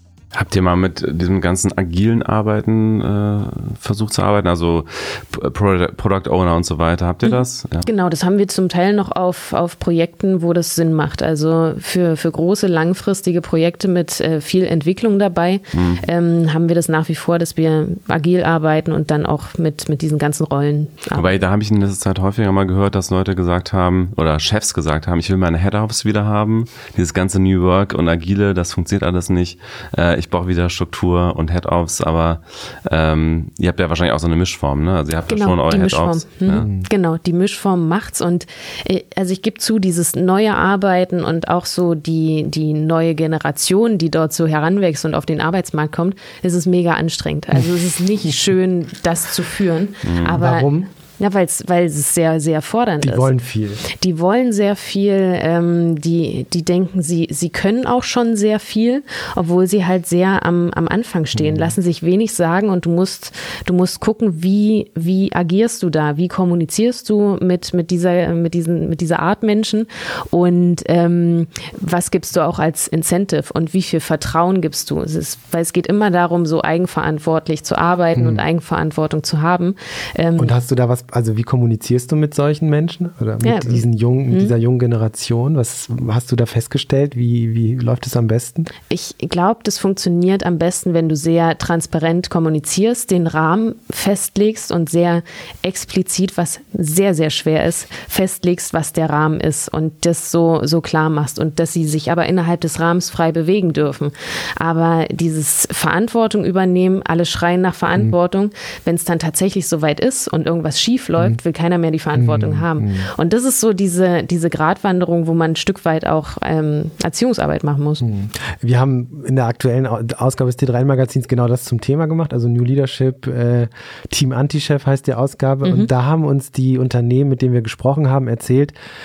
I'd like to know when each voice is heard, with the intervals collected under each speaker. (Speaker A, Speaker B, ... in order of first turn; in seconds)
Speaker A: 0.3-7.9, 15.7-16.0, 21.1-36.7, 50.0-50.4
Speaker B: 7.2-21.3, 35.3-80.5, 83.4-84.5, 88.9-118.0, 125.6-125.9
Speaker C: 36.6-36.9, 50.2-50.9, 53.0-53.8, 61.3-61.8, 78.2-78.4, 80.4-88.7, 112.2-113.1, 118.0-128.8